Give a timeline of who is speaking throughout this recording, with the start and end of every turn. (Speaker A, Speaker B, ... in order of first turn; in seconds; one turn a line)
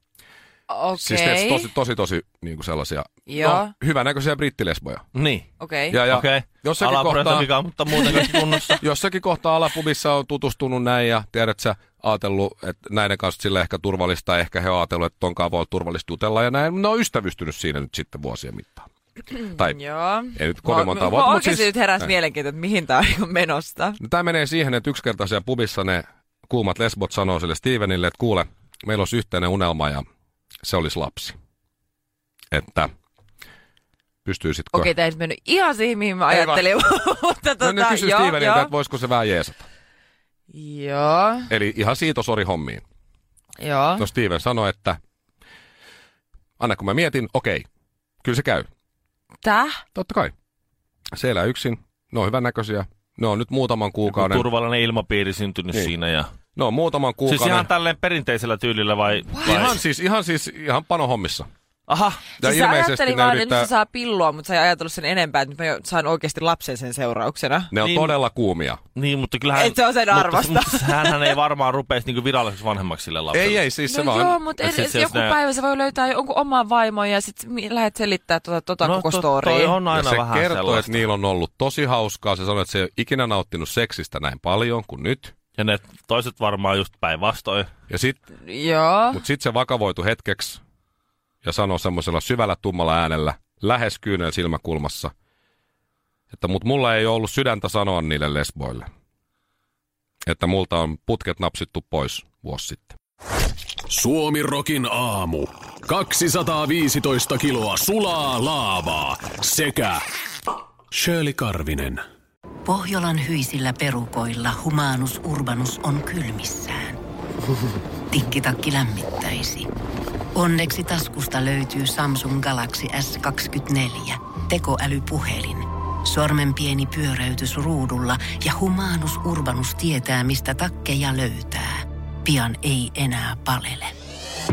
Speaker A: 0.7-1.7
Speaker B: 1.0-5.0
Speaker A: 3.3-3.7
Speaker C: 5.1-5.5
Speaker A: 5.6-6.0
Speaker B: 5.9-7.5
Speaker C: 6.0-8.8
Speaker B: 8.8-18.9
Speaker A: 19.3-24.0
Speaker B: 20.3-22.1
Speaker B: 24.0-30.0
Speaker B: 30.6-31.4
Speaker B: 32.5-32.9
Speaker B: 34.2-34.9
Speaker A: 34.7-38.7
Speaker B: 36.3-36.6
Speaker B: 37.6-39.6
Speaker A: 40.5-41.5
Speaker B: 41.5-42.8
Speaker A: 43.6-44.0
Speaker B: 44.0-45.0
Speaker B: 46.6-47.6
Speaker B: 48.2-48.7
Speaker A: 49.4-49.8
Speaker B: 49.9-50.3
Speaker B: 51.1-54.5
Speaker C: 54.1-56.3
Speaker B: 56.5-57.7
Speaker C: 57.3-59.8
Speaker A: 59.3-59.6
Speaker B: 59.4-61.5
Speaker C: 61.9-62.2
Speaker A: 62.4-67.7
Speaker B: 62.4-63.7
Speaker B: 67.7-68.8
Speaker C: 67.8-68.1
Speaker C: 69.0-73.6
Speaker A: 69.5-71.3
Speaker B: 73.3-74.4
Speaker A: 73.9-79.8
Speaker C: 74.6-75.4
Speaker C: 78.8-81.0
Speaker B: 79.9-85.3
Speaker C: 85.6-87.7
Speaker B: 87.9-88.2
Speaker A: 88.4-89.2
Speaker B: 89.1-90.6
Speaker B: 91.4-95.1
Speaker B: 96.3-98.9
Speaker B: 100.2-103.0
Speaker D: 103.9-110.0
Speaker D: 110.9-112.0
Speaker E: 112.7-117.0
Speaker E: 118.1-119.7
Speaker E: 120.3-133.9